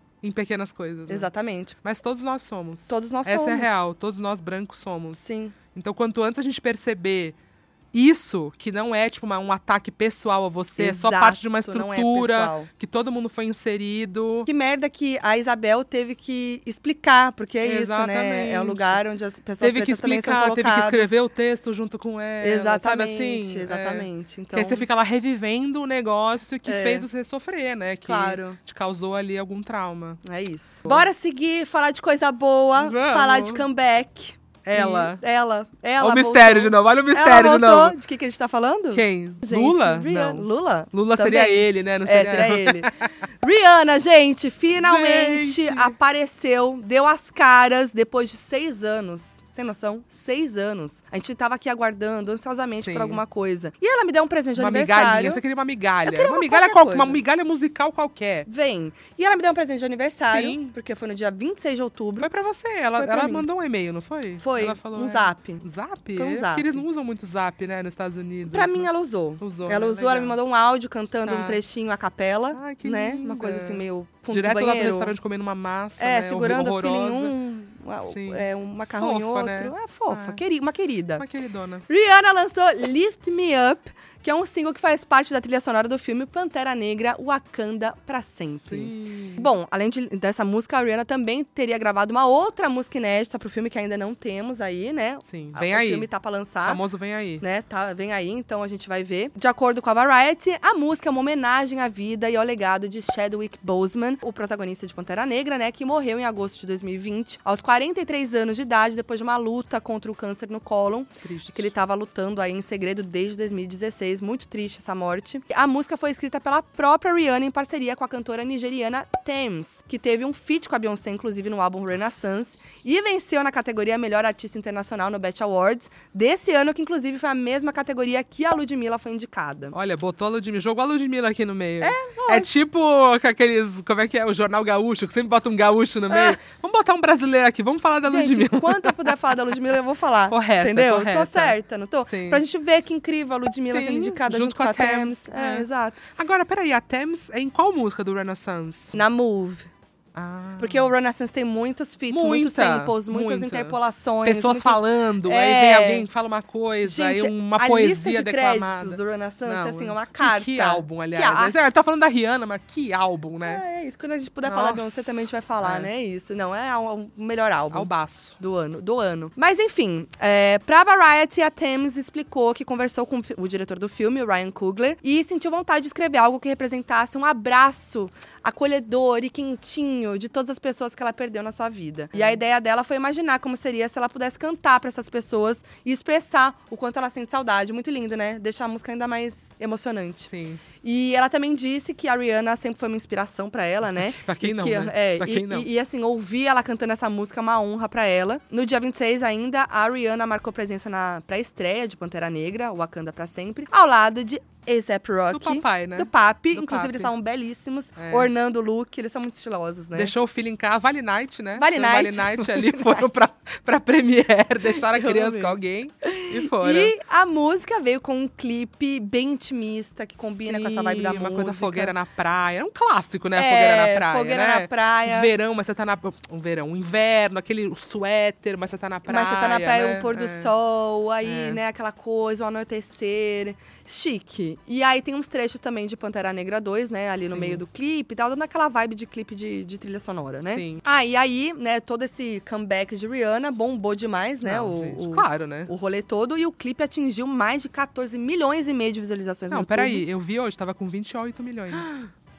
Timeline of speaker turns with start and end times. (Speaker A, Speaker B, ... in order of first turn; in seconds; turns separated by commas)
Speaker A: 0.2-1.3, Speaker B: 1.1-1.7, Speaker A: 1.8-7.3, Speaker B: 2.9-3.9, Speaker B: 5.2-5.5, Speaker A: 7.9-14.5, Speaker B: 10.8-12.7, Speaker B: 14.5-21.1, Speaker A: 17.6-19.0, Speaker A: 19.6-30.2, Speaker B: 22.4-24.9, Speaker B: 26.6-27.1, Speaker B: 28.0-28.6, Speaker B: 30.2-42.9, Speaker A: 32.8-33.6, Speaker A: 34.6-35.2, Speaker A: 36.0-38.0, Speaker A: 38.9-43.1, Speaker B: 43.4-55.4, Speaker A: 44.8-45.9, Speaker A: 52.8-53.2, Speaker A: 54.5-58.5, Speaker B: 56.0-57.2, Speaker B: 58.5-62.3, Speaker A: 60.3-60.7, Speaker A: 62.2-68.9, Speaker B: 63.0-63.5, Speaker B: 64.4-65.6, Speaker B: 66.1-66.8, Speaker B: 68.5-75.1, Speaker A: 69.4-70.4, Speaker A: 71.2-71.6, Speaker A: 72.5-77.3, Speaker B: 76.0-81.2, Speaker A: 78.1-80.4, Speaker A: 81.2-81.8, Speaker B: 81.9-96.8, Speaker A: 88.6-89.5, Speaker A: 95.2-96.1, Speaker A: 96.6-97.4, Speaker B: 97.4-129.8, Speaker A: 111.2-111.7, Speaker A: 129.7-139.2, Speaker B: 131.8-132.5, Speaker B: 136.1-136.4, Speaker B: 138.1-146.0, Speaker A: 140.3-142.4, Speaker A: 143.7-149.0, Speaker B: 148.9-149.7, Speaker A: 150.1-150.9, Speaker B: 150.6-156.1, Speaker A: 152.1-163.6, Speaker B: 156.8-161.5, Speaker B: 163.4-210.1, Speaker A: 164.4-165.9, Speaker A: 167.7-168.4, Speaker A: 182.1-182.4, Speaker A: 190.3-190.6, Speaker A: 193.9-195.7, Speaker A: 205.3-207.1, Speaker A: 208.0-208.3, Speaker A: 209.9-216.9, Speaker B: 211.6-213.1, Speaker B: 214.7-221.9, Speaker A: 220.2-230.5, Speaker B: 223.3-225.3, Speaker B: 229.1-250.0, Speaker A: 231.2-231.6, Speaker A: 237.2-237.6, Speaker A: 240.4-240.8, Speaker A: 244.4-245.7, Speaker A: 249.5-251.9, Speaker B: 251.7-252.1